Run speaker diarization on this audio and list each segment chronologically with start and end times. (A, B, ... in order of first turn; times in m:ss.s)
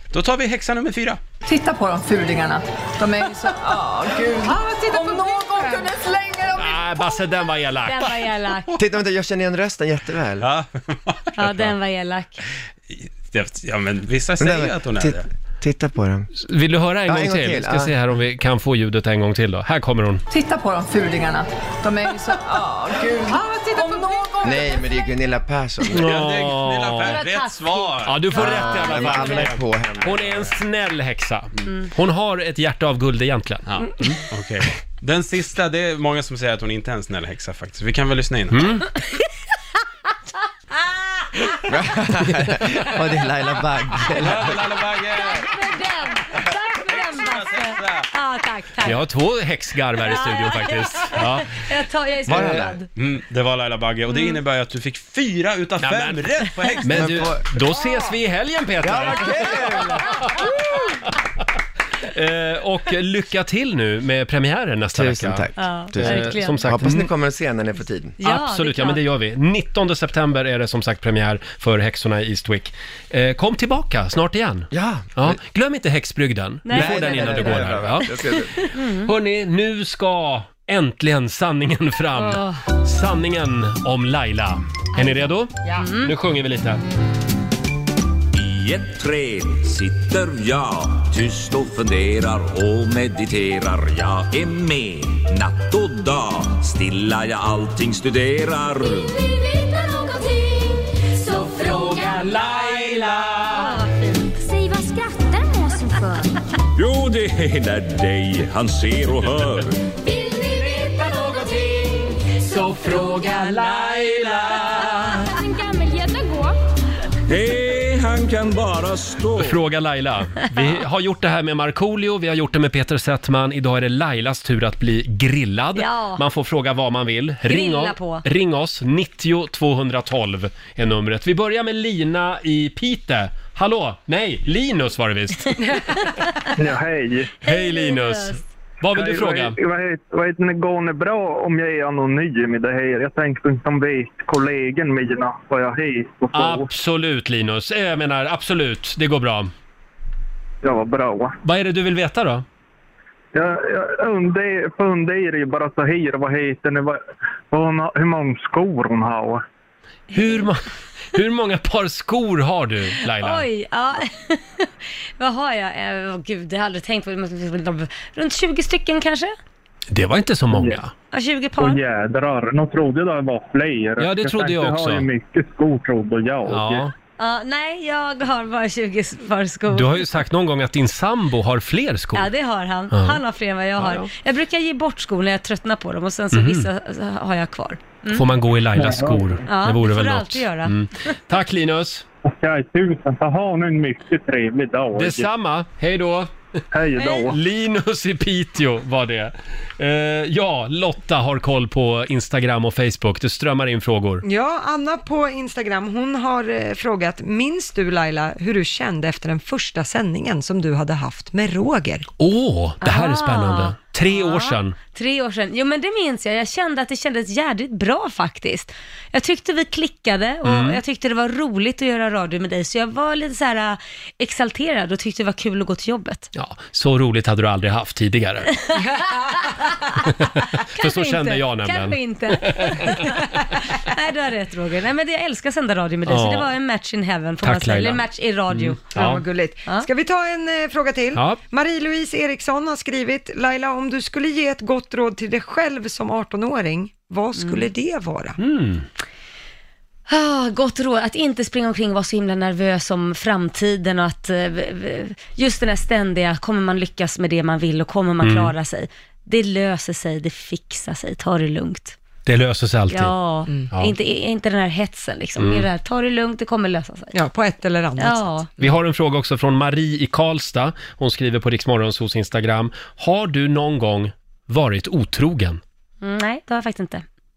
0:00.1-0:01.2 A
0:01.4-0:07.3 B
0:06.5-0:08.2 C
0:07.8-0:08.8 D
0:08.7-0:10.5 E
0:10.4-0:11.7 A
0:11.4-0:12.4 D
0:12.9-0:15.3 A
0:14.4-0:16.3 E
0:16.4-0:20.2 C
0:17.0-0:18.0 E
0:20.3-0:25.0 B
0:24.4-0:26.2 E
0:25.9-0:27.2 C
0:26.0-0:28.4 A
0:27.1-0:29.5 D
0:28.0-0:34.1 C
0:28.3-0:30.3 E
0:30.0-0:30.5 A
0:33.7-0:38.6 A
0:38.5-0:38.8 C
0:40.8-0:41.5 D
0:41.6-0:44.9 E
0:44.1-0:45.7 A
0:45.1-0:49.0 D
0:46.3-0:48.1 A
0:48.8-0:51.5 C
0:50.0-0:52.9 D
0:52.2-0:52.8 E
0:53.0-0:57.3 A
0:54.1-0:54.4 D
0:55.8-1:00.4 C
0:56.9-0:57.7 E
0:58.8-1:00.2 E
1:02.0-1:05.4 C
1:04.9-1:08.2 E
1:05.6-1:06.6 D
1:06.0-1:07.1 C
1:08.2-1:09.0 D
1:08.2-1:18.1 C
1:14.7-1:15.4 E
1:16.6-1:19.1 D
1:16.7-1:18.6 E
1:19.0-1:26.8 C
1:22.2-1:22.6 D
1:25.0-1:26.1 D
1:28.3-1:39.1 F
1:39.1-1:43.0 G
1:42.3-1:43.6 C
1:43.5-1:44.0 D
1:44.2-1:46.3 G
1:46.7-1:49.8 F
1:50.0-1:53.1 G
1:52.5-1:55.2 C
1:54.5-1:56.5 G
1:57.3-1:59.6 F
1:59.4-2:15.6 C
2:05.8-2:06.2 D
2:07.5-2:08.2 D
2:15.6-2:16.5 D
2:16.6-2:17.3 H
2:17.4-2:18.4 D
2:17.4-2:19.6 C
2:18.9-2:26.7 H
2:26.3-2:29.5 C
2:30.6-2:31.4 H
2:31.4-2:32.4 C
2:33.3-2:39.4 H
2:40.1-2:43.5 C
2:43.2-2:49.3 D
2:49.9-2:50.9 C
2:50.5-2:50.8 H
2:51.1-2:51.8 D
2:51.6-2:56.9 H
2:54.0-2:55.1 C
2:56.5-2:56.9 C
2:57.2-3:00.0 D
2:59.7-3:02.3 C
3:02.1-3:08.2 D
3:02.9-3:03.2 C
3:03.8-3:04.1 C
3:06.3-3:06.7 C
3:08.1-3:12.0 C
3:08.8-3:09.4 H
3:09.5-3:10.8 D
3:12.2-3:15.3 H
3:15.0-3:16.3 C
3:16.7-3:17.4 H
3:17.0-3:17.3 D
3:17.0-3:24.2 C
3:24.2-3:32.0 I
3:32.2-3:34.8 C
3:32.8-3:46.3 D
3:40.4-3:40.8 C
3:46.3-3:48.5 C
3:48.6-3:49.9 D
3:48.8-3:49.2 I
3:50.1-3:53.1 C
3:50.8-3:58.9 D
3:56.1-3:56.5 C
3:57.4-3:59.2 C
3:58.9-4:08.4 I
4:01.1-4:01.4 C
4:07.4-4:07.7 D
4:08.4-4:08.8 C
4:10.1-4:22.0 D
4:18.2-4:18.5 C
4:22.2-4:23.1 C
4:22.9-4:27.1 D
4:25.4-4:25.6 C
4:27.1-4:28.8 I
4:28.0-4:28.5 D
4:28.6-4:35.6 C
4:36.0-4:37.0 D